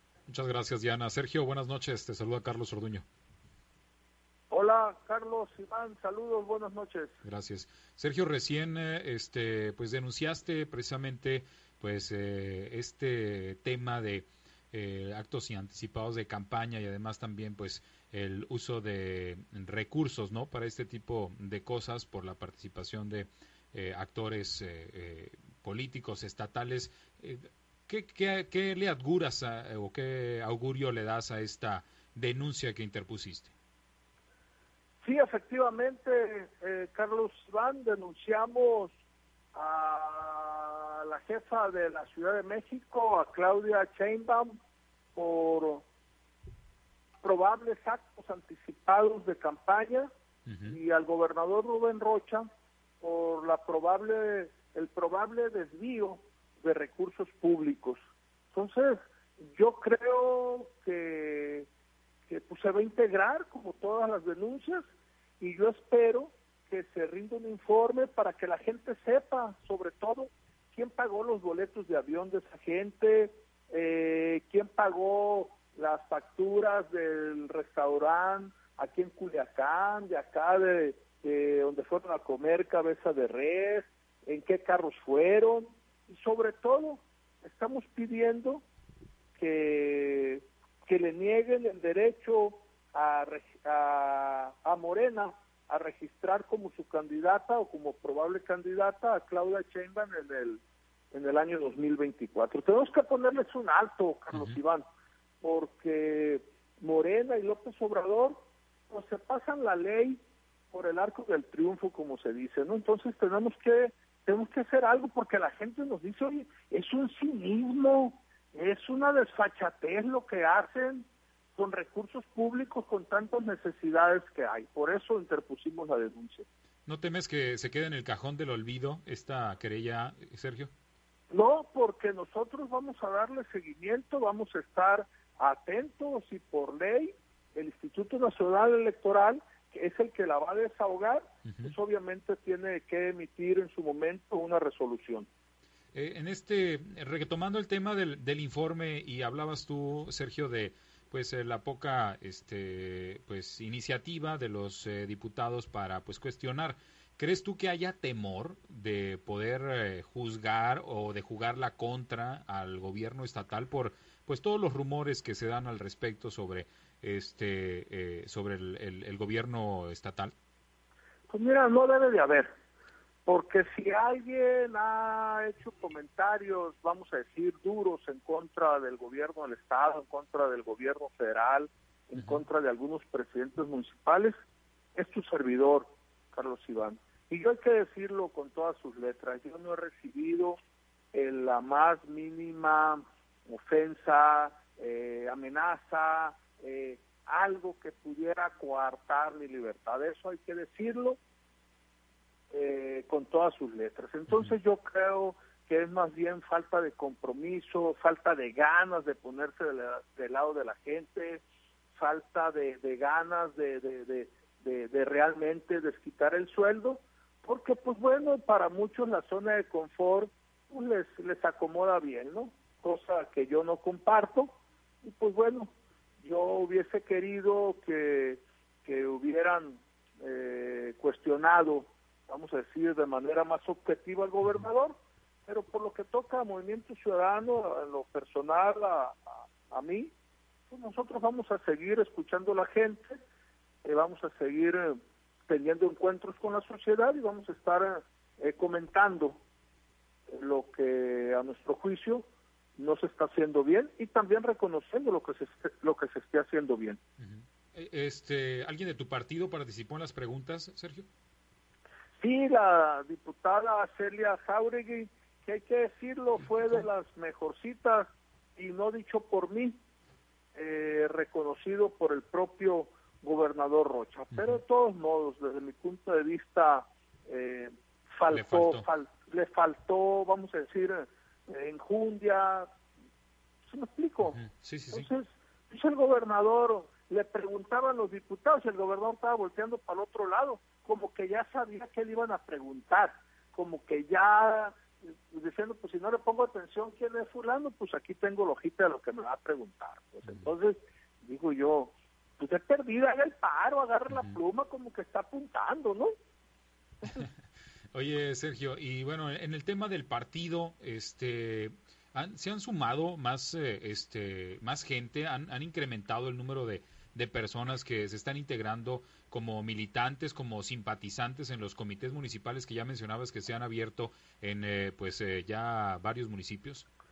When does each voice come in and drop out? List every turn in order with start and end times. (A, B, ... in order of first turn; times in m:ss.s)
0:00.3-0:03.0 A
0:04.5-0:07.2 B
0:07.2-0:33.5 A
0:35.0-0:38.9 B
0:39.5-0:44.5 B
0:45.2-0:45.8 B
0:47.2-0:50.1 B
0:50.5-0:50.8 A
0:50.7-0:52.5 B
0:53.0-0:58.0 B
0:58.5-1:01.7 B
1:02.3-1:04.8 B
1:05.4-1:28.6 B
1:29.4-1:40.6 B
1:41.1-1:44.8 B
1:45.4-1:48.4 B
1:48.9-1:50.2 B
1:50.7-2:06.5 B
2:06.9-2:10.7 A
2:11.3-2:25.3 B
2:25.9-2:50.3 A
2:51.3-2:52.5 B
2:53.3-3:04.4 B
3:05.0-3:10.6 B
3:11.1-3:21.2 B
3:22.5-3:31.4 B
3:32.0-3:44.5 B
3:45.0-3:45.7 B
3:46.2-3:55.0 B
3:55.5-4:00.1 B
4:00.7-4:03.2 B
4:03.8-4:09.4 B
4:10.3-4:12.2 B
4:12.8-4:17.0 B
4:17.2-4:21.1 A
4:22.2-4:29.8 B
4:30.6-4:42.7 B
4:38.3-4:38.8 A
4:43.7-4:44.4 B
4:44.2-4:45.1 A
4:44.9-5:06.1 B
5:07.0-5:07.3 A
5:07.9-5:26.9 A